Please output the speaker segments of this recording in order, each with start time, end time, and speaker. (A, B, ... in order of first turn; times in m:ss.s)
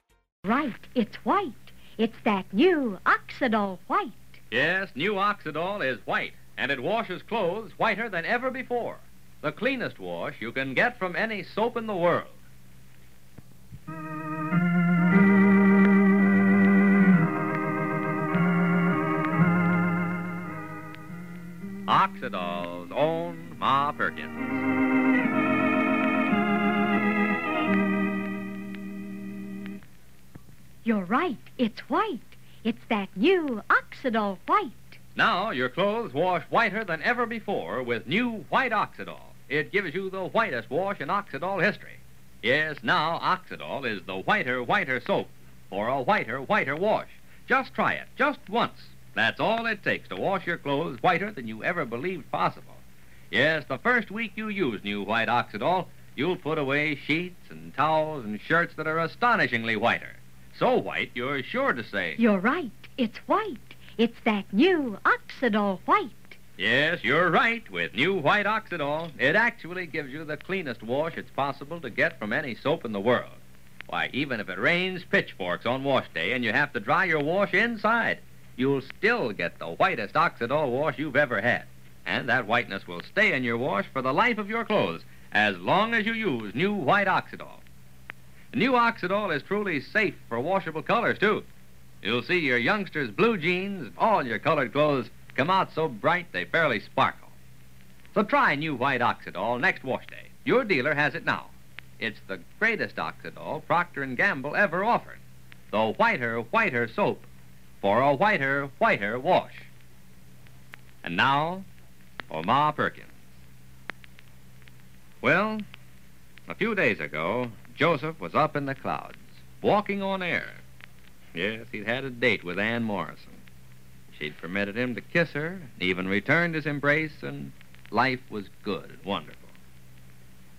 0:00.4-0:04.4 A
0:04.5-0:12.4 B
0:21.9-0:24.6 B
0:30.8-0:35.0 A
0:35.2-1:02.2 B
1:02.2-1:06.4 A
1:06.6-1:27.6 B
1:28.5-1:31.4 B
1:32.0-1:37.3 B
1:38.1-1:47.3 B
1:47.8-1:49.7 B
1:51.0-1:51.7 B
1:52.3-1:53.1 B
1:55.2-1:55.6 B
1:56.5-2:00.6 B
2:01.3-2:03.4 B
2:04.1-2:09.5 B